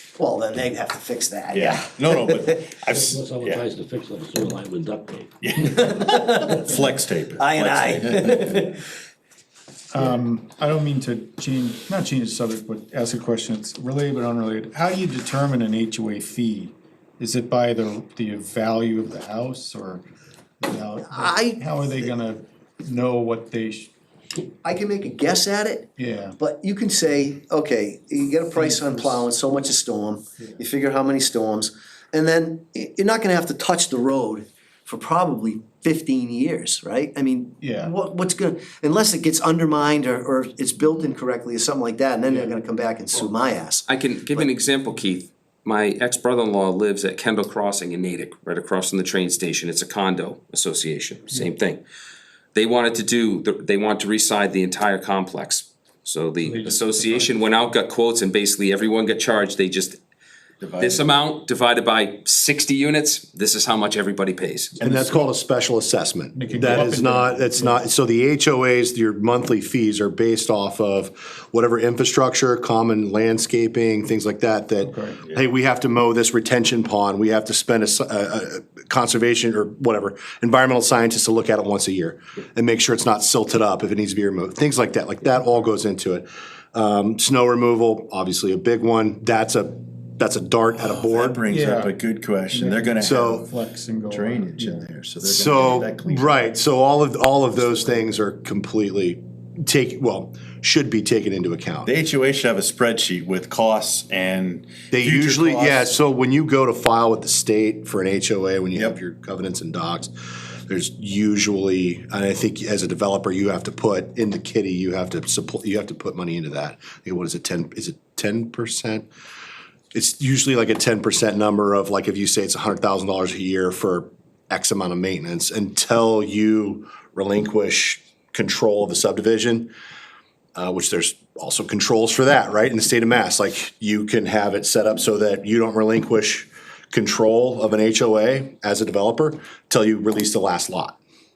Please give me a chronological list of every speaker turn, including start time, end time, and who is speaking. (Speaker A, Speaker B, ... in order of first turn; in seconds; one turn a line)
Speaker A: 0.2-2.6
Speaker B: 1.5-3.7
Speaker C: 2.9-5.9
Speaker B: 5.4-8.4
Speaker A: 5.7-6.7
Speaker A: 7.4-8.8
Speaker D: 9.9-20.0
Speaker D: 20.6-23.9
Speaker A: 21.0-22.1
Speaker A: 24.6-44.5
Speaker D: 26.0-26.4
Speaker D: 28.6-29.2
Speaker D: 37.6-38.0
Speaker D: 42.3-42.6
Speaker E: 43.9-51.8
Speaker E: 52.5-60.0
Speaker D: 56.4-57.5
Speaker B: 60.6-61.2
Speaker E: 60.8-64.8
Speaker B: 64.8-65.3
Speaker F: 64.8-91.4
Speaker D: 66.3-67.8
Speaker D: 74.8-75.2
Speaker B: 90.8-93.4
Speaker D: 91.5-94.9
Speaker F: 93.0-93.5
Speaker B: 94.1-96.4
Speaker F: 95.2-101.9
Speaker B: 101.8-105.9
Speaker F: 104.9-110.1
Speaker F: 110.7-119.1
Speaker F: 119.9-129.7
Speaker F: 130.6-141.0